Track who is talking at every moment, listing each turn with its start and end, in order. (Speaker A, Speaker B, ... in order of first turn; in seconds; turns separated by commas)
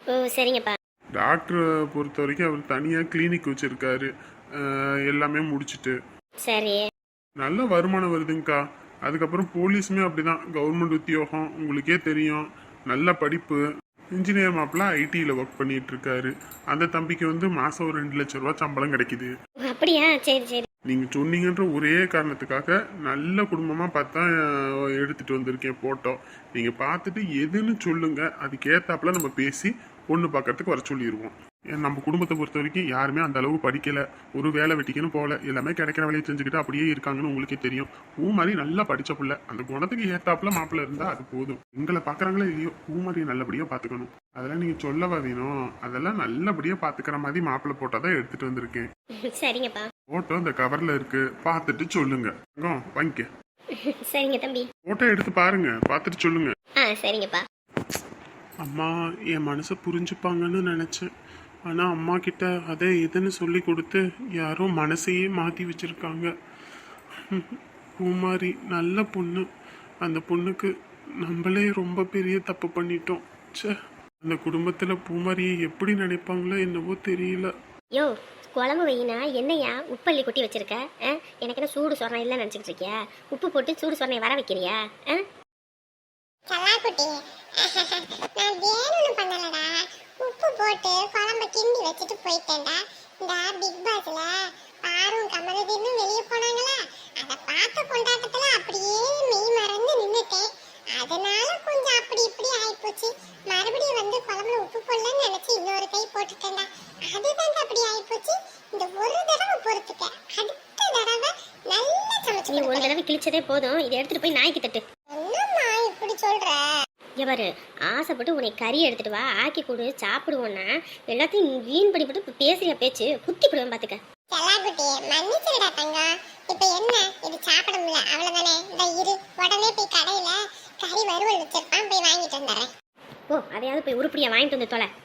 Speaker A: 0.1-0.8, Speaker B: 1.2-6.0, Speaker A: 6.5-6.8, Speaker B: 7.4-13.6, Speaker B: 14.2-19.3, Speaker A: 19.7-20.7, Speaker B: 20.9-24.3, Speaker B: 25.0-48.9, Speaker A: 49.3-49.9, Speaker B: 50.1-53.3, Speaker A: 54.1-54.7, Speaker B: 54.9-56.6, Speaker A: 56.8-57.4, Speaker B: 58.6-61.1, Speaker B: 61.7-66.3, Speaker B: 67.3-69.5, Speaker B: 70.0-70.7, Speaker B: 71.2-77.5, Speaker A: 78.0-85.2, Speaker C: 86.5-112.9, Speaker A: 112.5-114.8, Speaker C: 115.1-116.7, Speaker A: 117.2-124.0, Speaker C: 124.3-132.7, Speaker A: 133.3-134.9